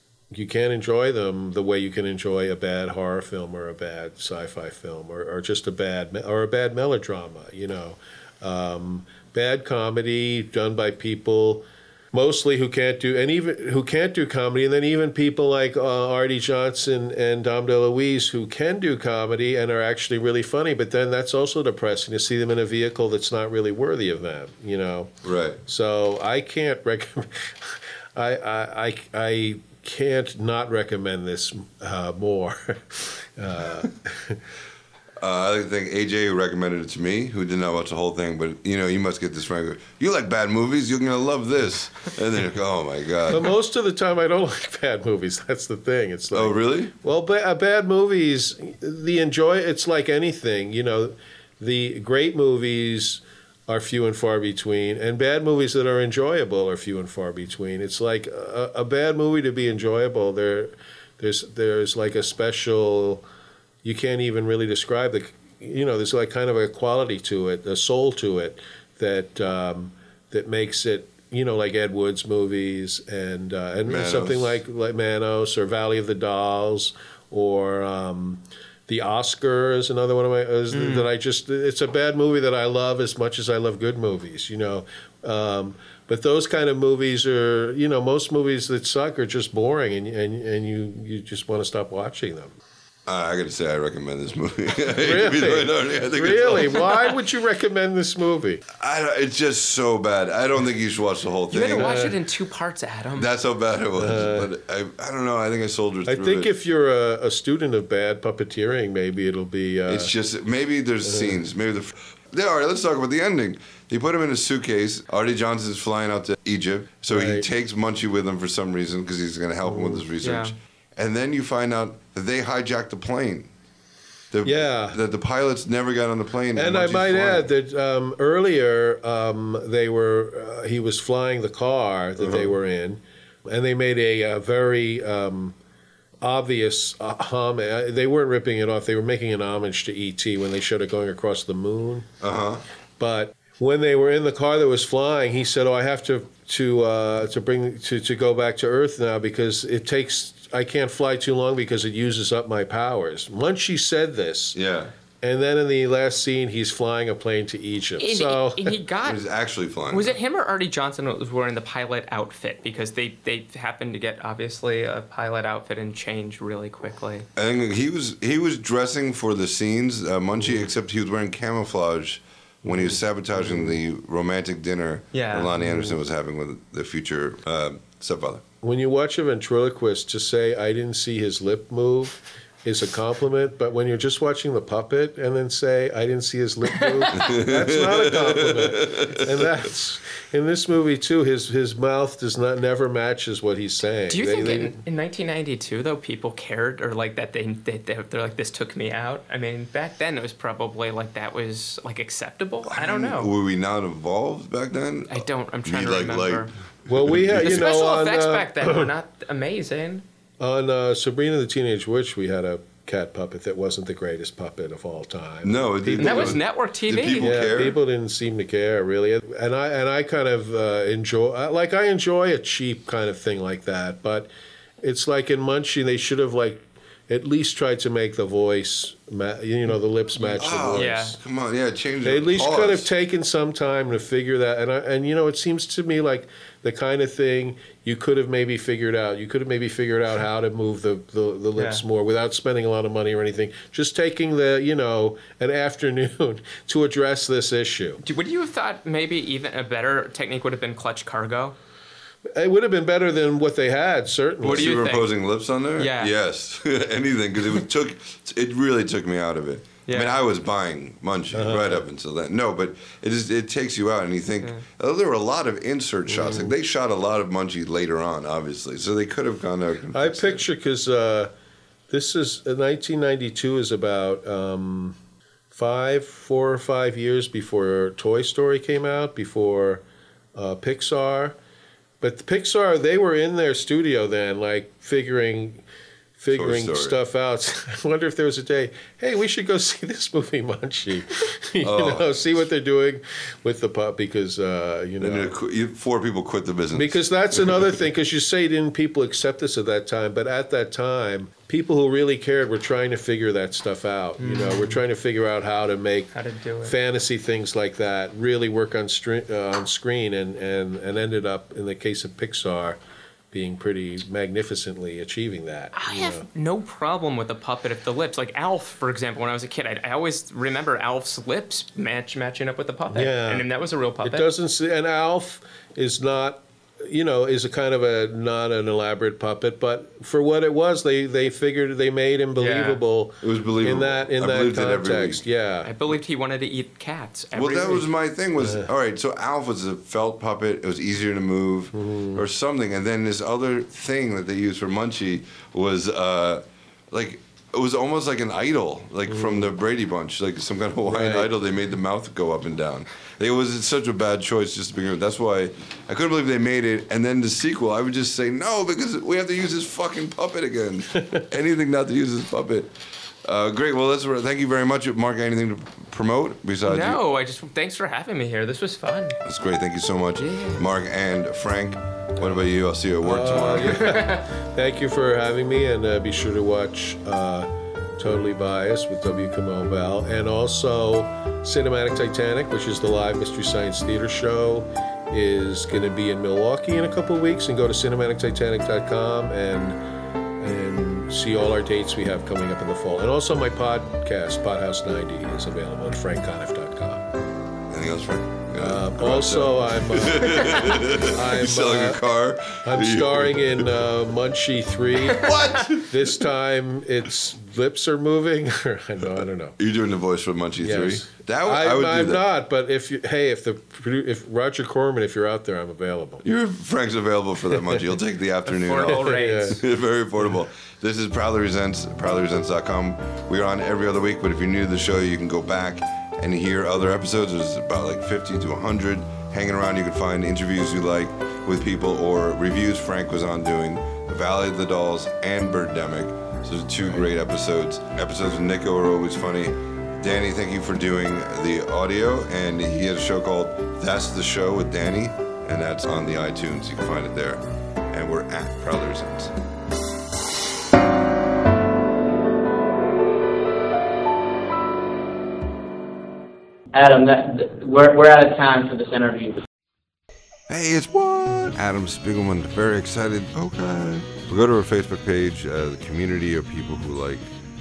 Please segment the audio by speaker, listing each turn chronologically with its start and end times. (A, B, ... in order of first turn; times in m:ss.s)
0:00.3-0:25.1 A
0:25.2-0:25.6 B
0:25.6-0:34.4 A
0:35.2-0:43.5 B
0:43.3-1:03.2 A
0:46.3-0:46.9 B
1:03.8-1:32.5 A
1:13.8-1:14.6 B
1:20.7-1:21.1 C
1:33.1-1:36.9 B
1:35.0-1:38.6 A
1:38.8-1:42.0 B
1:41.5-1:43.3 C
1:41.7-1:42.2 A
1:43.2-1:46.5 B
1:43.9-1:44.5 A
1:46.0-1:50.1 A
1:49.9-2:03.5 B
1:51.0-1:51.4 A
1:57.1-1:57.5 A
1:59.6-2:00.1 A
2:00.2-2:00.5 C
2:04.3-2:07.5 B
2:04.4-2:05.0 A
2:06.5-2:15.5 A
2:12.2-2:12.5 B
2:16.2-2:22.1 A
2:22.2-2:22.6 B
2:23.0-2:34.6 A
2:34.5-2:34.9 B
2:35.2-2:38.8 A
2:38.0-2:39.2 C
2:39.0-2:40.1 B
2:39.9-2:47.2 C
2:47.4-2:58.4 B
2:52.6-2:53.8 A
2:55.1-2:55.5 C
2:55.6-2:56.0 A
2:58.6-3:14.8 A
3:06.8-3:07.2 C
3:07.1-3:09.5 B
3:14.1-3:23.3 C
3:22.6-3:27.7 B
3:25.1-3:26.5 C
3:26.9-3:28.9 A
3:27.4-3:30.0 C
3:30.4-3:36.4 A
3:35.4-3:37.8 B
3:36.0-3:37.4 C
3:37.2-3:44.3 A
3:44.8-3:51.1 A
3:50.2-3:52.9 B
3:50.7-3:51.2 C
3:52.0-4:08.0 A
4:01.5-4:01.8 C
4:08.0-4:11.5 C
4:12.3-4:14.8 A
4:14.4-4:15.1 C
4:14.4-4:30.4 B
4:15.8-4:16.1 C
4:19.9-4:20.1 C
4:21.3-4:21.9 A
4:26.1-4:26.5 A
4:29.9-4:31.3 A
4:31.9-4:34.9 A
4:35.5-4:39.8 A
4:40.3-4:41.3 A
4:42.0-4:45.6 A
4:46.2-4:55.3 A
4:46.3-4:47.0 B
4:51.6-4:52.1 B
4:55.0-4:57.8 B
4:56.7-5:06.1 A
5:04.2-5:04.8 C
5:06.1-5:06.8 C
5:06.6-5:12.8 A
5:13.3-5:16.2 A
5:15.7-5:24.3 C
5:22.9-5:23.5 A
5:24.0-5:35.7 A
5:32.4-5:32.8 C
5:33.2-5:35.2 B
5:35.6-5:37.9 C
5:37.3-6:07.0 B
5:38.4-5:38.7 A
5:41.7-5:42.2 A
5:49.1-5:49.5 A
5:50.9-5:51.3 A
6:06.6-6:09.2 C
6:09.2-6:14.0 B
6:10.2-6:10.6 C
6:13.0-6:29.8 A
6:13.6-6:14.2 C
6:30.4-6:37.0 A
6:37.7-6:43.8 B
6:38.6-6:42.0 A
6:42.6-6:49.6 A
6:45.0-6:46.2 B
6:49.2-6:52.2 B
6:50.6-6:56.2 A
6:56.2-7:29.3 B
6:58.5-6:59.6 C
6:58.8-6:59.6 A
7:36.7-7:39.4 D
7:40.5-7:47.2 B